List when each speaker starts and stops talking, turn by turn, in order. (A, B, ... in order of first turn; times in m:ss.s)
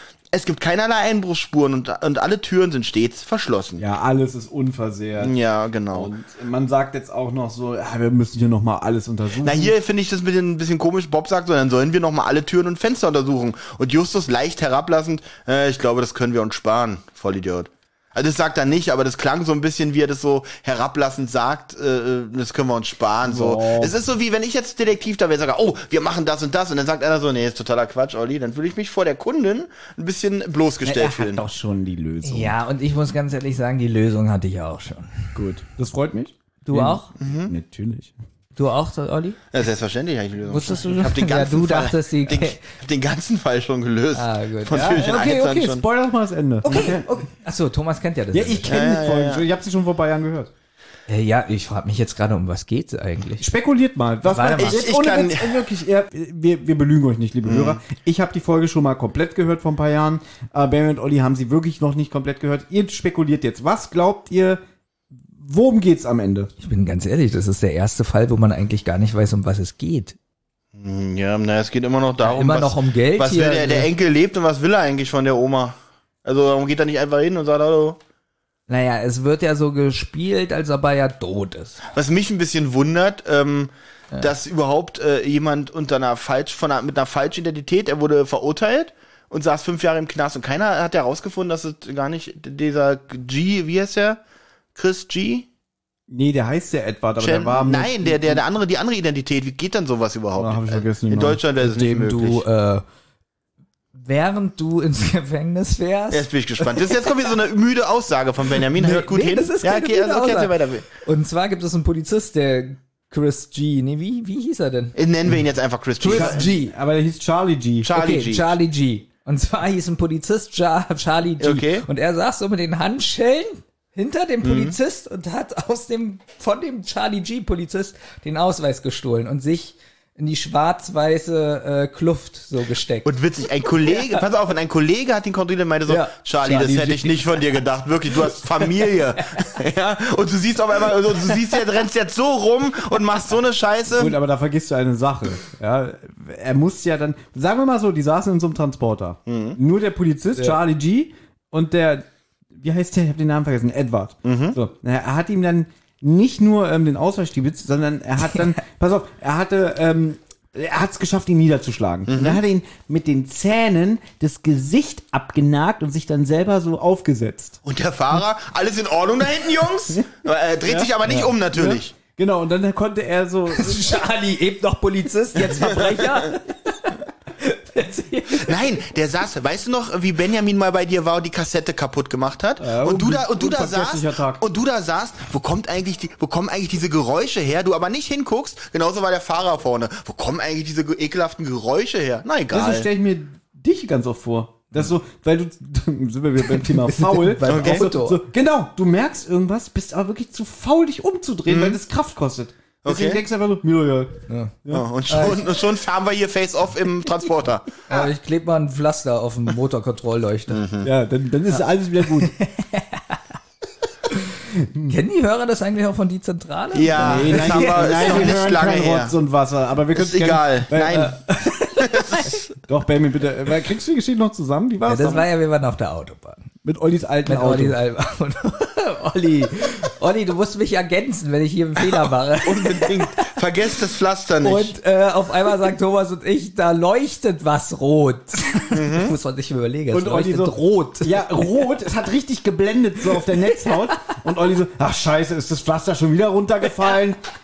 0:00.3-0:03.8 A
0:03.8-0:05.4 B
0:05.2-0:06.1 A
0:05.9-0:09.8 B
0:09.4-0:31.5 A
0:23.2-0:24.0 B
0:30.8-0:32.6 B
0:32.2-0:35.4 C
0:35.4-0:38.1 B
0:36.6-0:37.1 C
0:37.2-0:37.5 A
0:38.6-0:39.4 C
0:39.5-0:45.8 A
0:40.5-0:42.6 C
0:44.1-0:45.0 C
0:44.7-0:47.1 B
0:46.6-0:48.7 C
0:48.3-0:50.5 B
0:48.7-0:49.4 A
0:51.1-0:53.5 C
0:53.4-1:04.6 B
0:54.3-0:54.8 C
0:54.6-0:55.7 A
0:57.4-0:57.8 A
1:05.3-1:06.5 B
1:06.6-1:10.2 C
1:10.8-1:18.0 A
1:12.2-1:13.9 C
1:18.7-1:21.8 C
1:21.9-1:34.2 A
1:34.8-1:35.5 A
1:36.1-1:38.4 B
1:37.2-1:42.4 A
1:40.4-1:41.4 B
1:41.6-1:42.8 C
1:44.0-1:47.0 C
1:46.1-1:50.9 A
1:48.7-1:55.0 C
1:55.0-1:56.5 A
1:56.0-1:56.7 C
1:56.0-1:57.9 B
1:57.8-1:58.6 A
1:57.9-2:13.2 C
2:01.4-2:01.9 A
2:04.4-2:04.8 A
2:13.0-2:24.2 A
2:15.9-2:17.4 C
2:23.9-2:47.6 B
2:29.3-2:29.6 A
2:30.4-2:30.6 C
2:34.2-2:34.6 A
2:42.1-2:42.4 A
2:47.6-2:51.9 A
2:50.7-2:54.0 B
2:53.5-2:58.6 C
2:58.4-3:12.9 A
3:02.6-3:04.4 B
3:12.5-3:24.9 B
3:16.5-3:18.2 C
3:17.5-3:17.9 A
3:21.5-3:21.8 A
3:22.8-3:23.2 A
3:24.3-3:24.6 C
3:24.7-3:27.8 A
3:25.1-3:25.5 C
3:27.9-3:30.7 C
3:30.5-3:30.9 A
3:30.8-3:32.3 B
3:32.1-3:33.2 C
3:34.8-3:38.5 C
3:36.8-3:39.1 A
3:37.0-3:41.1 B
3:39.9-3:41.2 A
3:40.9-3:42.4 C
3:41.8-3:42.3 A
3:42.7-3:45.3 B
3:44.9-3:46.4 C
3:46.6-3:47.8 B
3:47.3-3:53.2 C
3:52.4-3:54.8 A
3:54.4-4:01.2 C
3:58.7-3:59.2 A
3:59.9-4:07.2 B